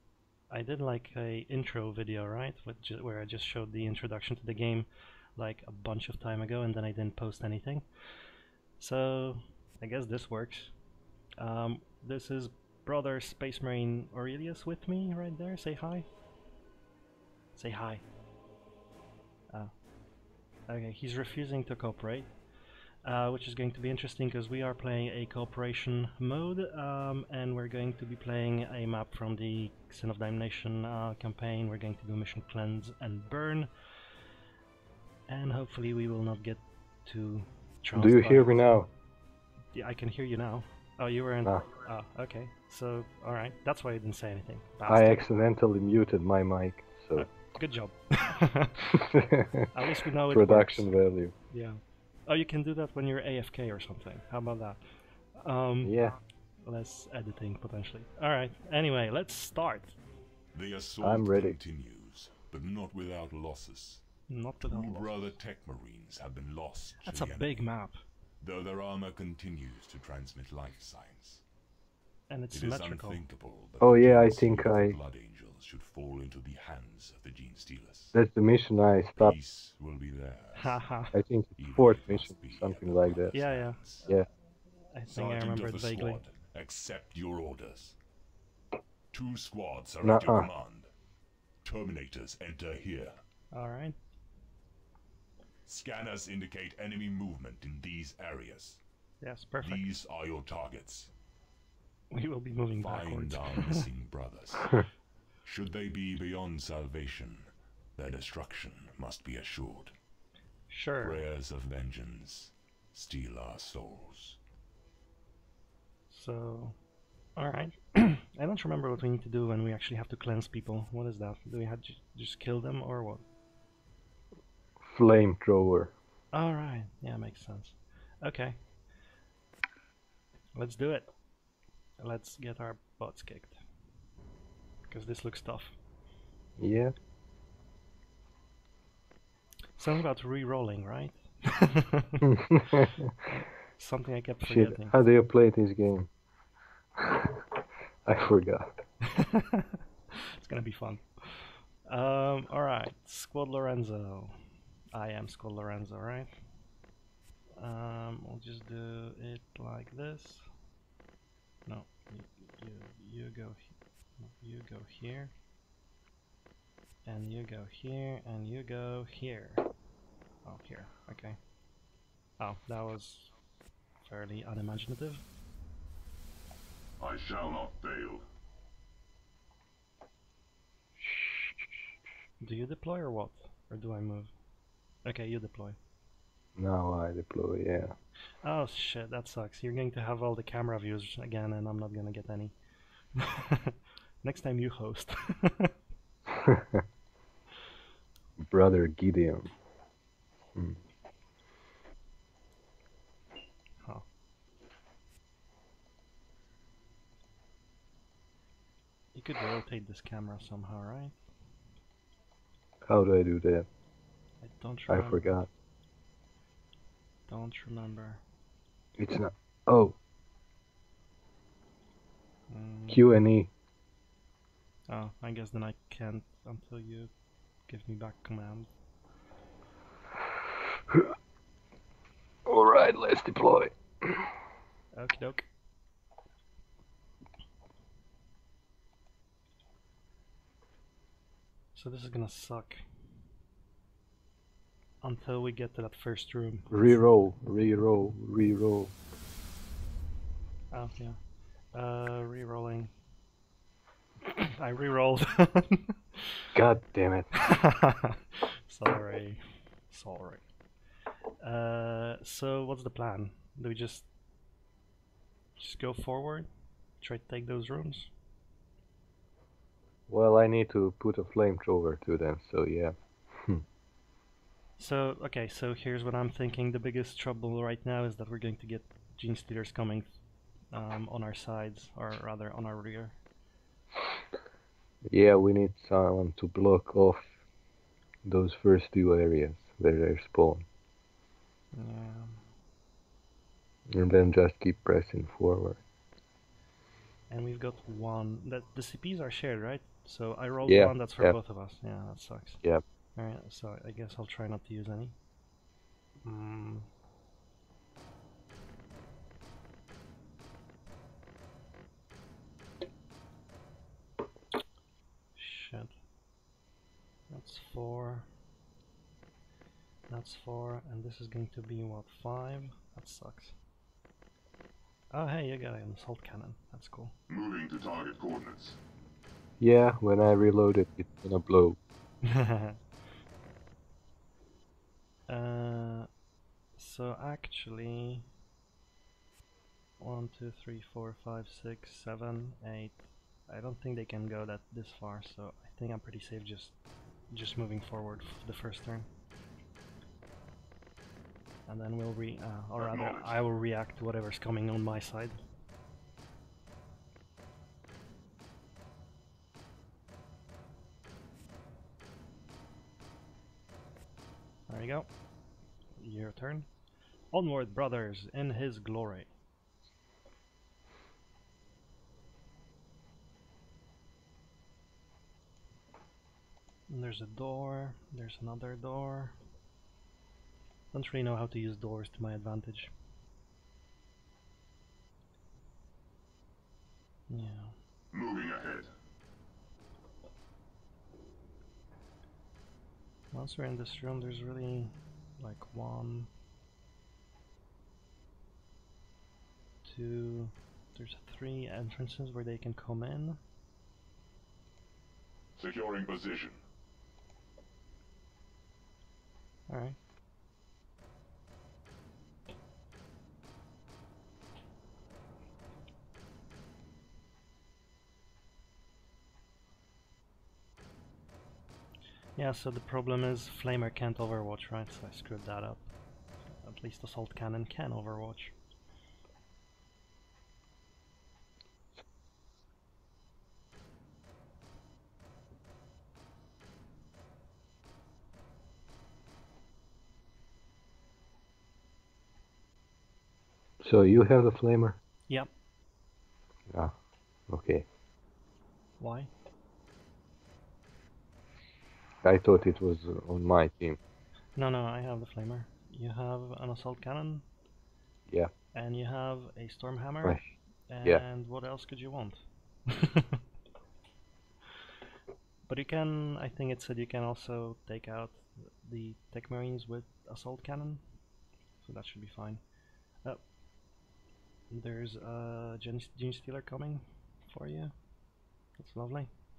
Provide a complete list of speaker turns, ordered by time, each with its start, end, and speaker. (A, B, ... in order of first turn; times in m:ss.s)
0:00.5-0:07.8 A
0:08.8-0:10.7 A
0:11.4-0:16.1 A
0:17.6-0:18.0 A
0:20.7-0:22.3 A
0:23.0-0:33.7 A
0:35.3-0:38.6 A
0:38.0-0:38.9 B
0:39.7-0:45.2 A
0:44.9-0:47.3 B
0:47.2-0:49.2 A
0:48.9-0:49.7 B
0:49.7-0:50.9 A
0:50.3-0:51.3 B
0:51.5-0:54.8 A
0:55.4-0:56.1 A
0:55.8-0:56.2 B
0:56.6-1:00.0 A
1:00.5-1:04.0 C
1:01.0-1:01.6 B
1:04.3-1:05.2 A
1:04.6-1:07.6 C
1:07.0-1:08.0 A
1:08.4-1:11.4 C
1:12.3-1:13.2 A
1:12.5-1:18.2 C
1:13.8-1:15.0 B
1:18.1-1:19.4 B
1:19.2-1:20.8 C
1:20.6-1:21.2 A
1:21.1-1:23.4 B
1:21.6-1:24.1 C
1:23.3-1:24.1 A
1:24.9-1:26.2 A
1:25.1-1:28.0 C
1:29.1-1:30.9 C
1:30.0-1:30.5 B
1:31.6-1:33.2 C
1:33.5-1:34.0 A
1:35.7-1:38.8 C
1:39.2-1:39.9 A
1:39.6-1:41.1 C
1:42.1-1:43.8 A
1:42.8-1:44.8 C
1:45.4-1:49.9 C
1:50.7-1:51.2 A
1:51.0-1:54.4 C
1:56.1-1:56.8 A
1:57.4-2:03.2 A
2:04.8-2:05.9 B
2:06.3-2:08.6 A
2:10.6-2:11.1 A
2:12.0-2:13.6 A
2:14.9-2:15.8 A
2:16.6-2:16.9 B
2:19.8-2:22.3 A
2:22.2-2:23.1 B
2:23.3-2:25.0 A
2:24.5-2:26.1 B
2:27.0-2:27.4 B
2:28.1-2:28.8 B
2:29.0-2:34.4 A
2:34.9-2:36.3 A
2:37.6-2:40.5 A
2:41.7-2:45.3 A
2:47.1-2:49.6 A
2:50.4-2:51.4 A
2:52.4-2:53.3 A
2:54.0-2:55.2 A
2:57.0-2:58.2 C
3:01.0-3:01.6 B
3:02.4-3:04.3 A
3:05.0-3:05.8 A
3:06.6-3:08.0 B
3:08.4-3:12.6 A
3:13.2-3:15.7 A
3:16.3-3:16.8 B
3:18.4-3:19.5 B
3:29.2-3:31.2 A
3:32.8-3:33.7 B
3:34.4-3:35.4 A
3:34.9-3:35.5 B
3:37.3-3:38.2 A
3:39.0-3:40.0 B
3:42.5-3:43.1 A
3:42.9-3:43.5 B
3:44.9-3:47.1 A
3:47.7-3:48.7 A
3:50.9-3:51.1 B
3:52.5-3:54.3 B
3:55.0-3:55.4 A
4:01.8-4:02.8 A
4:05.0-4:07.0 A
4:06.7-4:08.9 B
4:10.7-4:11.2 A
4:11.7-4:12.9 A
4:14.2-4:16.5 A
4:16.5-4:17.3 B
4:17.3-4:20.4 A
4:21.4-4:24.1 A
4:25.6-4:26.5 A
4:27.0-4:28.1 A
4:30.1-4:33.6 B
4:34.8-4:40.1 A
4:40.7-4:43.2 A
4:45.1-4:47.2 B
4:48.2-4:50.7 B
4:51.7-4:52.4 A
4:53.9-4:55.8 B
4:57.3-5:02.6 A
5:00.7-5:01.4 B
5:03.2-5:05.2 A
5:06.2-5:06.9 A
5:15.4-5:16.0 A
5:17.3-5:18.3 A
5:20.1-5:23.6 A
5:25.1-5:27.1 A
5:27.3-5:28.8 C
5:29.6-5:31.8 B
5:32.2-5:32.8 A
5:35.3-5:36.1 A
5:36.8-5:38.3 A
5:40.0-5:46.8 A
5:47.3-5:49.1 A
5:51.7-5:55.4 A
5:52.8-5:53.4 C
6:04.7-6:05.1 A
6:06.0-6:06.7 A
6:07.3-6:09.3 A
6:16.9-6:19.4 A
6:20.9-6:22.9 A
6:27.3-6:27.8 A
6:28.1-6:28.9 C
6:33.3-6:36.3 A
6:39.8-6:43.4 A
6:45.6-6:46.6 C
6:49.7-6:50.0 A
7:02.4-7:05.9 A
7:06.6-7:08.5 A
7:23.8-7:25.0 B
7:26.7-7:27.0 B
7:27.5-7:27.8 B
7:29.0-7:29.3 A
7:32.2-7:34.0 B
7:34.6-7:37.4 A
7:38.7-7:43.4 A
7:45.7-7:51.0 A
7:51.8-7:52.6 A
7:54.7-7:57.9 A
7:58.8-7:59.3 A